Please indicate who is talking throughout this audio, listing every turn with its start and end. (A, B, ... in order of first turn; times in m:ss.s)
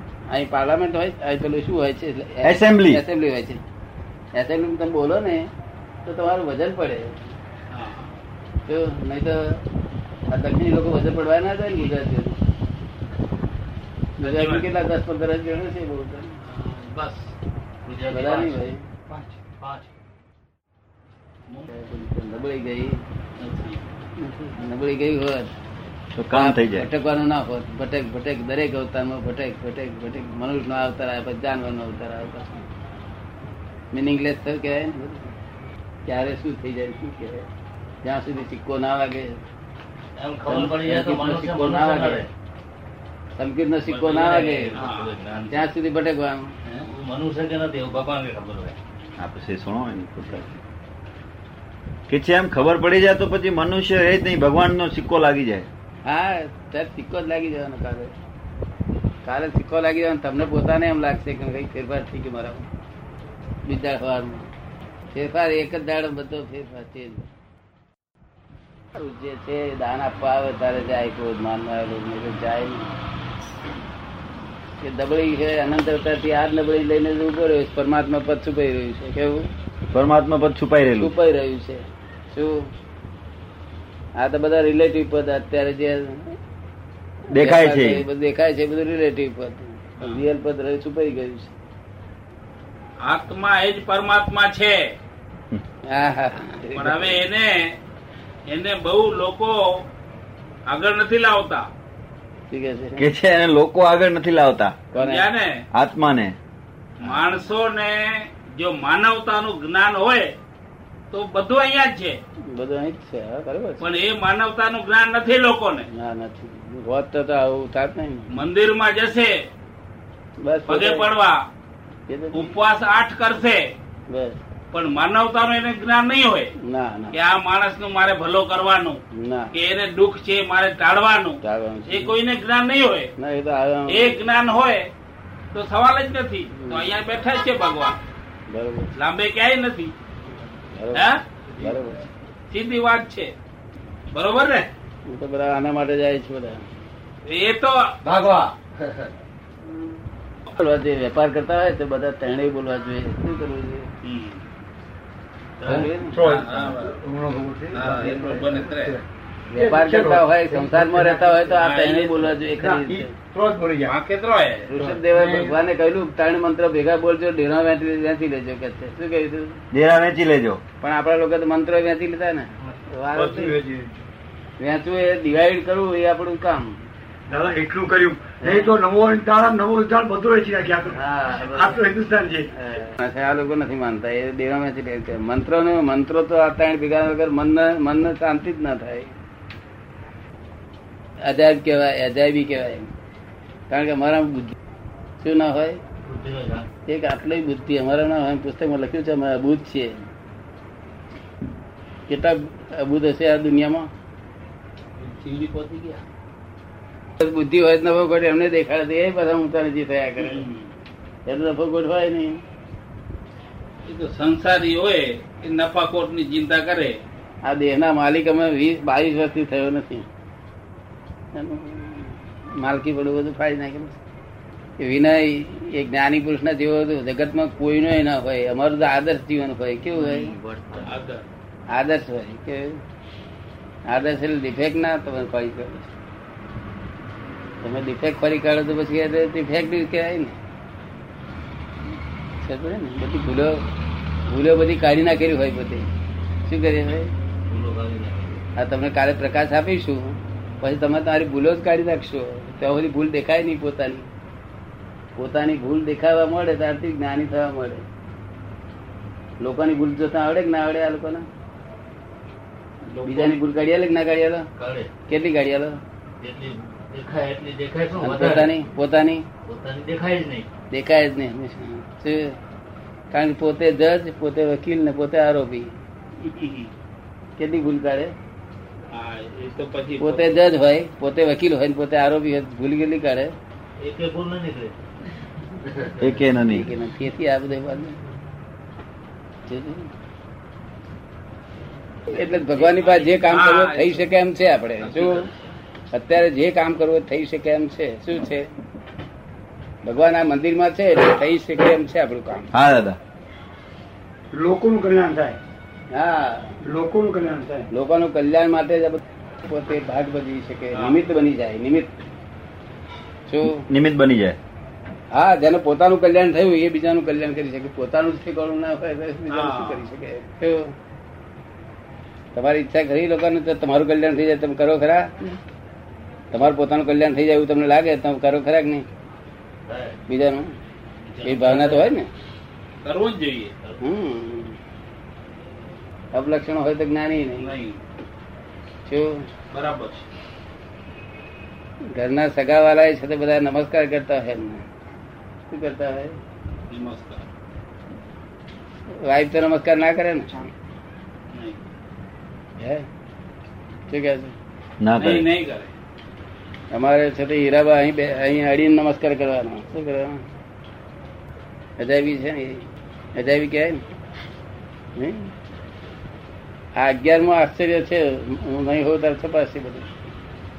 0:00.3-0:03.6 A
0:02.4-0:03.0 B
0:04.3-0:05.5 A
0:06.0-0:07.2 A
0:07.7-0:08.1 C
0:08.7-0:09.6 A
0:10.3-0:12.4 A
0:14.2-0:14.7 C
0:14.2-0:16.4 A
0:16.4-0:17.3 C
0:17.8-0:18.6 D
0:18.1-0:18.8 A
0:19.4-0:19.9 D
0:21.7-0:23.0 A
0:23.4-0:23.8 C
0:24.2-0:25.5 A
0:26.1-0:26.9 B
0:26.3-0:32.6 A
0:33.9-0:35.3 A
0:36.0-0:37.4 A
0:38.0-0:39.4 A
0:40.2-0:42.3 D
0:40.5-0:42.3 A
0:43.4-0:44.8 A
0:43.8-0:45.6 D
0:44.7-0:45.2 C
0:45.5-0:46.5 A
0:46.8-0:48.8 D
0:49.2-0:50.5 B
0:52.1-0:55.7 B
0:56.0-0:58.1 A
0:59.2-1:02.6 A
1:03.6-1:04.5 A
1:05.1-1:07.3 A
1:08.9-1:12.9 A
1:14.8-1:19.5 A
1:19.9-1:21.1 B
1:21.0-1:22.7 A
1:24.2-1:26.3 A
1:27.3-1:28.0 B
1:27.3-1:31.5 A
1:33.0-1:34.9 C
1:35.9-1:37.2 A
1:36.7-1:37.8 C
1:38.5-1:39.8 C
1:40.7-1:41.7 C
1:42.5-1:43.1 A
1:43.0-1:44.8 B
1:44.9-1:45.3 A
1:45.0-1:45.6 C
1:45.7-1:46.4 B
1:47.0-1:50.3 C
1:51.1-1:52.2 C
1:52.5-1:53.8 A
1:53.8-1:55.9 C
1:55.9-1:58.3 A
1:58.3-1:59.5 C
2:00.4-2:01.1 A
2:00.7-2:01.4 C
2:02.1-2:02.5 A
2:02.3-2:03.7 C
2:04.1-2:04.4 A
2:04.7-2:06.5 C
2:06.6-2:07.2 A
2:07.1-2:09.0 C
2:09.1-2:09.5 A
2:09.5-2:13.1 C
2:11.4-2:12.2 A
2:13.2-2:14.2 A
2:13.9-2:14.9 C
2:15.5-2:18.0 C
2:16.5-2:16.9 A
2:18.5-2:18.9 A
2:18.9-2:19.9 C
2:20.7-2:22.1 A
2:20.9-2:21.2 C
2:22.5-2:23.3 C
2:24.1-2:24.7 C
2:25.1-2:26.6 A
2:27.2-2:28.0 C
2:28.0-2:28.6 E
2:30.5-2:33.9 A
2:34.0-2:34.4 C
2:35.6-2:35.9 D
2:35.6-2:36.2 A
2:35.7-2:39.0 E
2:36.2-2:37.0 C
2:37.7-2:39.0 C
2:39.5-2:43.1 A
2:39.5-2:41.5 E
2:41.6-2:42.3 C
2:42.6-2:43.9 E
2:43.8-2:44.7 C
2:44.7-2:49.6 A
2:44.8-2:45.6 E
2:49.7-2:50.6 B
2:50.8-2:53.6 A
2:53.1-2:53.9 E
2:54.6-2:56.8 A
2:57.3-3:02.5 E
2:58.4-2:58.7 A
3:00.9-3:01.9 A
3:02.5-3:09.1 A
3:11.2-3:12.9 A
3:13.7-3:14.6 A
3:15.2-3:15.8 A
3:16.0-3:16.7 D
3:16.9-3:20.0 A
3:22.1-3:23.9 A
3:25.0-3:26.0 C
3:27.2-3:30.4 A
3:30.2-3:30.7 C
3:31.3-3:32.4 A
3:33.8-3:37.0 C
3:37.4-3:40.1 A
3:41.3-3:44.0 A
3:44.8-3:50.3 A
3:49.9-3:51.0 D
3:50.8-3:51.2 C
3:51.7-3:52.8 A
3:53.9-3:55.9 A
3:57.6-4:00.4 A
4:02.4-4:03.6 A
4:04.3-4:05.9 A
4:06.4-4:07.1 A
4:07.5-4:08.4 D
4:08.6-4:14.1 A
4:15.2-4:17.8 A
4:19.4-4:21.2 A
4:22.8-4:23.4 C
4:23.0-4:24.5 A
4:24.6-4:24.9 D
4:25.1-4:25.8 A
4:26.2-4:28.5 D
4:28.0-4:29.2 A
4:29.4-4:30.5 D
4:30.7-4:32.4 A
4:33.1-4:35.7 A
4:36.2-4:36.7 C
4:37.4-4:38.1 A
4:38.9-4:40.4 C
4:40.0-4:43.3 A
4:43.8-4:44.7 D
4:45.6-4:46.0 D
4:46.0-4:46.7 B
4:46.5-4:48.0 A
4:49.4-4:49.9 A
4:52.1-4:55.3 A
4:52.2-4:54.1 C
4:54.9-4:55.3 D
4:55.9-4:58.4 A
4:59.8-5:02.5 A
5:02.5-5:03.0 B
5:04.3-5:05.4 E
5:05.9-5:06.6 A
5:06.6-5:07.7 E
5:07.7-5:11.9 A
5:10.7-5:11.0 C
5:13.3-5:13.6 A
5:13.7-5:14.4 B
5:15.1-5:20.7 A
5:19.3-5:19.9 C
5:22.3-5:25.3 A
5:26.3-5:28.8 A
5:29.7-5:30.0 D
5:30.1-5:30.5 A
5:31.1-5:31.9 C
5:31.2-5:32.1 A
5:32.8-5:33.5 C
5:33.8-5:34.6 A
5:36.1-5:37.5 A
5:37.4-5:37.8 C
5:38.8-5:39.2 A
5:39.5-5:40.0 C
5:41.9-5:44.6 A
5:45.5-5:46.2 A
5:46.7-5:47.3 C
5:49.0-5:50.5 A
5:51.3-5:51.6 C
5:52.6-5:52.8 A
5:53.9-5:54.3 A
5:54.8-5:55.3 B
5:55.0-5:55.7 C
5:56.7-6:00.2 A
6:01.8-6:03.8 A
6:05.0-6:05.3 A
6:06.8-6:09.9 A